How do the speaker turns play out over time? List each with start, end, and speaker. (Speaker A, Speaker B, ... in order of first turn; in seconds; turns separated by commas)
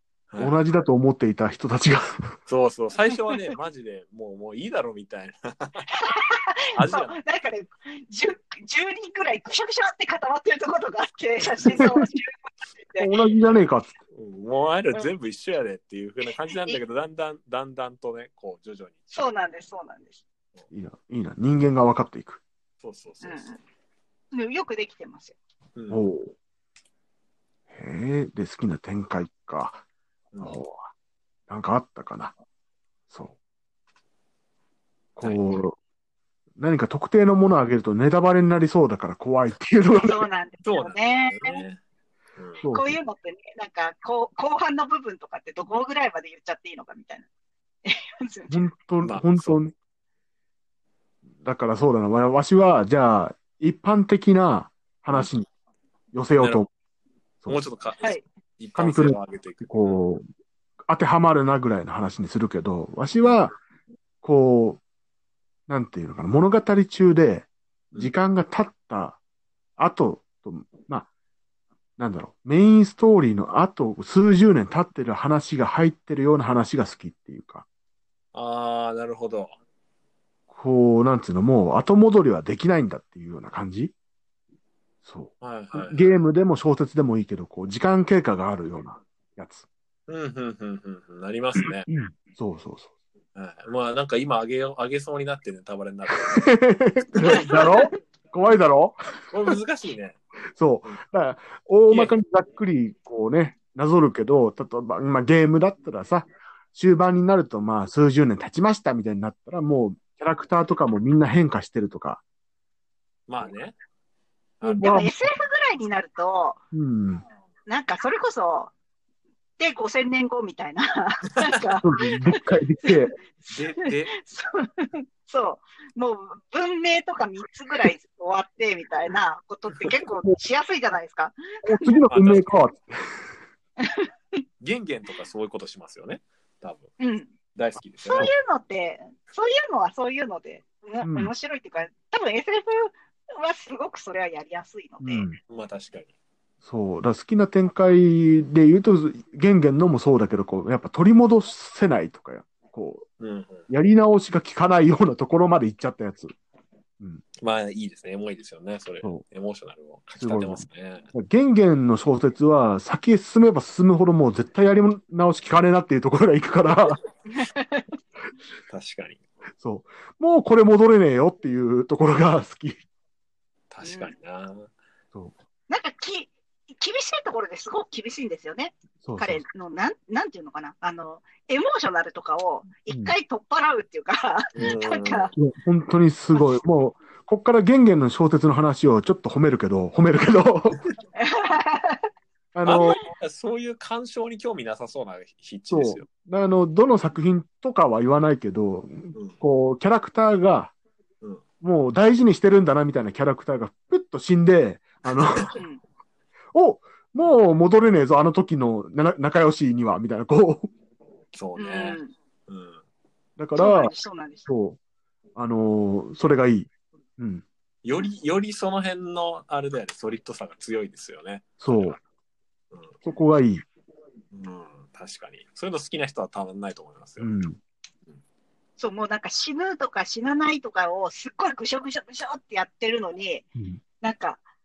Speaker A: 0.3-0.6, Speaker B: 0.4-2.3, Speaker A: 2.5-5.9, Speaker C: 5.9-13.1, Speaker A: 6.7-7.2, Speaker B: 13.0-14.0, Speaker A: 14.1-19.3, Speaker C: 19.1-20.2, Speaker B: 20.7-22.4, Speaker A: 22.8-23.6, Speaker C: 23.2-23.6, Speaker C: 24.3-25.4, Speaker A: 25.8-26.0, Speaker B: 25.9-26.4, Speaker B: 27.7-29.8, Speaker A: 30.3-30.6, Speaker B: 30.4-30.9, Speaker B: 31.5-32.3, Speaker B: 33.1-33.4, Speaker B: 35.2-35.8, Speaker A: 35.2-35.6, Speaker B: 36.6-40.2, Speaker C: 39.9-41.6, Speaker A: 40.6-41.8, Speaker A: 42.4-42.6, Speaker B: 42.6-43.0, Speaker C: 42.7-47.3, Speaker C: 47.9-48.7, Speaker B: 48.5-49.7, Speaker A: 49.0-49.6, Speaker B: 51.4-55.5, Speaker B: 56.1-56.7, Speaker A: 56.4-56.6, Speaker A: 57.5-60.0, Speaker B: 58.8-60.2, Speaker B: 60.9-63.5, Speaker B: 64.2-64.8, Speaker B: 65.7-69.2, Speaker B: 69.8-71.1, Speaker B: 72.0-77.7, Speaker A: 78.3-79.6, Speaker B: 80.5-83.9, Speaker B: 85.0-89.7, Speaker A: 85.4-86.1, Speaker A: 90.1-91.9, Speaker B: 91.6-92.9, Speaker A: 93.3-96.5, Speaker B: 96.2-99.0, Speaker A: 97.1-97.8, Speaker C: 97.2-98.0, Speaker A: 99.3-100.2, Speaker B: 100.6-112.2, Speaker A: 113.3-113.8, Speaker A: 114.6-115.0, Speaker B: 114.6-115.1, Speaker C: 114.8-116.6, Speaker B: 116.7-117.2, Speaker C: 117.7-118.7, Speaker C: 119.6-123.0, Speaker B: 121.8-123.1, Speaker A: 123.5-124.2, Speaker C: 123.8-131.9, Speaker B: 131.6-133.3, Speaker A: 132.1-132.5, Speaker C: 133.8-134.1, Speaker A: 134.6-136.9, Speaker C: 137.0-137.3, Speaker A: 137.5-138.3, Speaker C: 138.0-145.3, Speaker B: 141.0-141.3, Speaker B: 145.0-145.4, Speaker A: 145.5-146.1, Speaker B: 146.6-153.1, Speaker A: 153.2-153.7, Speaker B: 153.7-156.3, Speaker A: 157.4-161.1, Speaker B: 160.2-167.0, Speaker C: 167.3-167.9, Speaker A: 168.7-169.2, Speaker B: 169.6-172.8, Speaker A: 173.7-174.7, Speaker C: 173.8-174.1, Speaker C: 175.7-185.3, Speaker B: 179.0-179.4, Speaker B: 182.9-183.1, Speaker A: 184.6-185.3, Speaker B: 185.4-190.8, Speaker C: 191.2-192.1, Speaker B: 192.5-193.0, Speaker A: 192.6-196.1, Speaker B: 195.7-200.7, Speaker B: 201.6-205.6, Speaker C: 205.6-205.8, Speaker B: 206.5-210.7, Speaker A: 211.3-212.8, Speaker C: 211.6-212.1, Speaker B: 213.4-213.9, Speaker C: 213.6-214.5, Speaker B: 214.5-214.8, Speaker B: 215.3-217.4, Speaker A: 217.8-222.0, Speaker B: 221.6-222.0, Speaker B: 223.0-223.7, Speaker A: 224.3-227.3, Speaker B: 227.2-227.6, Speaker C: 228.8-233.5, Speaker C: 234.0-234.4